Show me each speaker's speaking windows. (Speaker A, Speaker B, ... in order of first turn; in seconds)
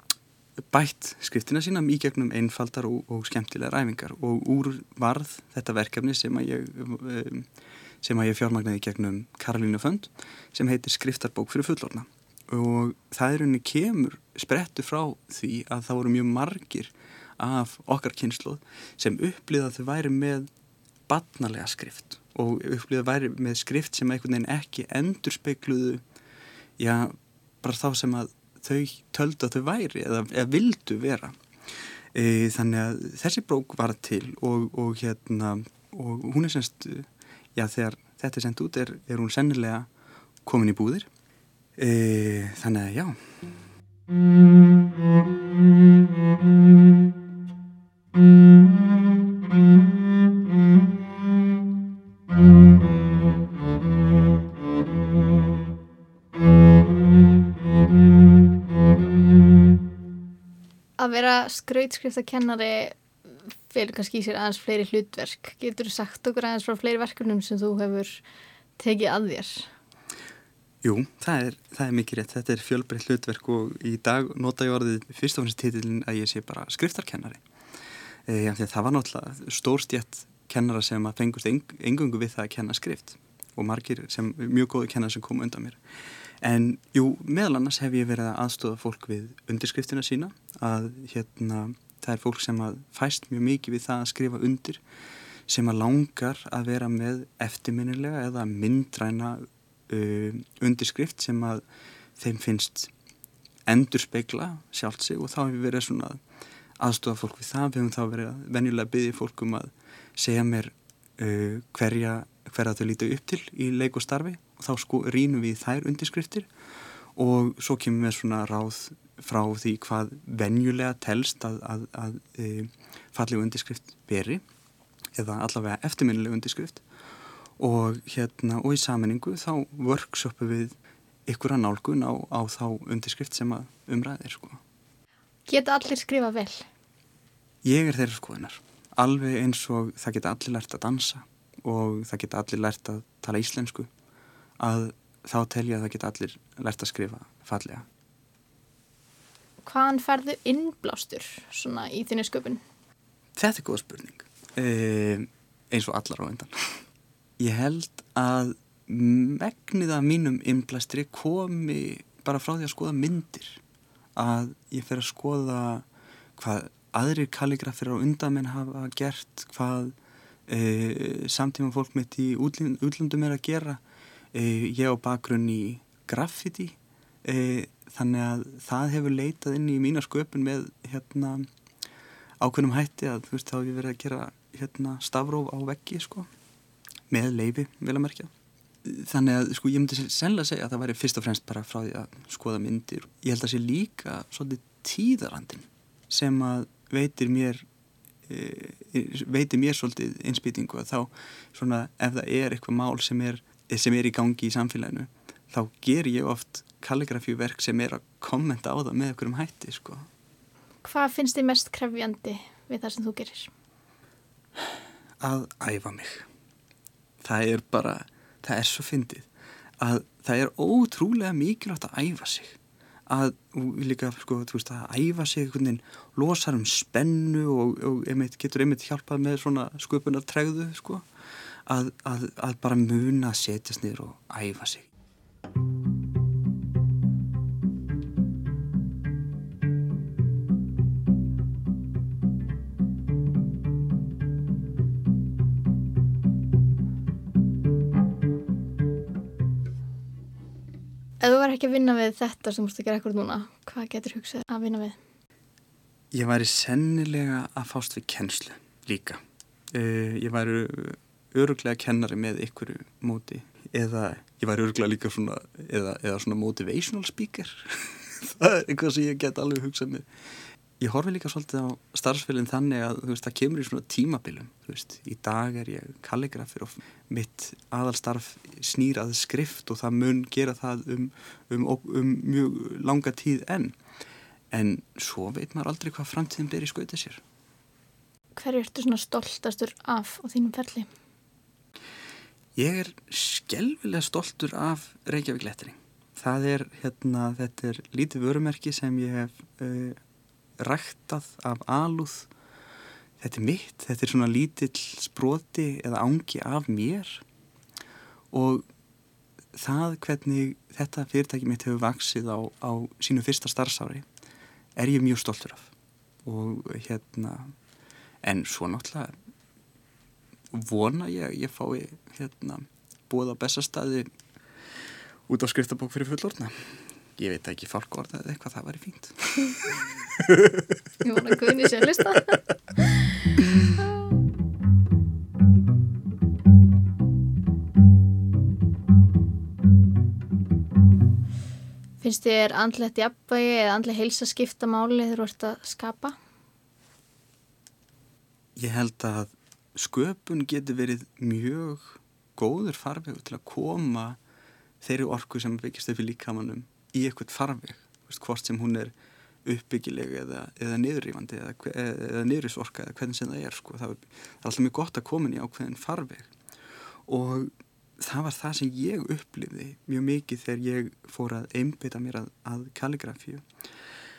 Speaker A: 0.7-7.5, 8.0-20.5, 21.1-26.0, 26.8-31.4, 32.1-39.9, 40.5-41.1, 41.8-43.4, 70.8-77.4, 78.3-85.8, 86.4-94.8, 95.5-101.6, 102.2-102.9, 103.7-106.2, 106.8-116.5, 117.2-124.4, 125.2-126.8, 127.6-130.8, 131.3-134.6, 137.6-143.9, 144.6-147.9, 153.4-156.8, 157.4-163.6, 164.2-169.9, 170.5-173.8, 174.3-181.5, 182.4-186.3, 187.1-188.3, 188.8-197.7, 198.3-210.1, 215.2-216.3, 217.2-219.3, 219.8-222.6, 223.1-231.1, 231.7-234.9, 256.1-259.2, 259.7-270.1, 270.8-283.8, 284.5-287.2, 292.6-300.0, 300.6-302.3, 303.2-307.2, 308.3-308.7, 309.5-314.1, 314.8-315.7, 316.3-317.5, 318.2-319.2, 320.5-324.1, 325.3-329.6, 348.6-354.2, 354.8-358.9, 359.4-366.3, 367.1-373.4
Speaker B: 61.0-68.2, 68.8-69.7, 135.5-136.7, 149.6-152.6, 210.8-213.5, 251.2-255.0, 288.4-290.9, 331.0-333.1, 342.0-346.2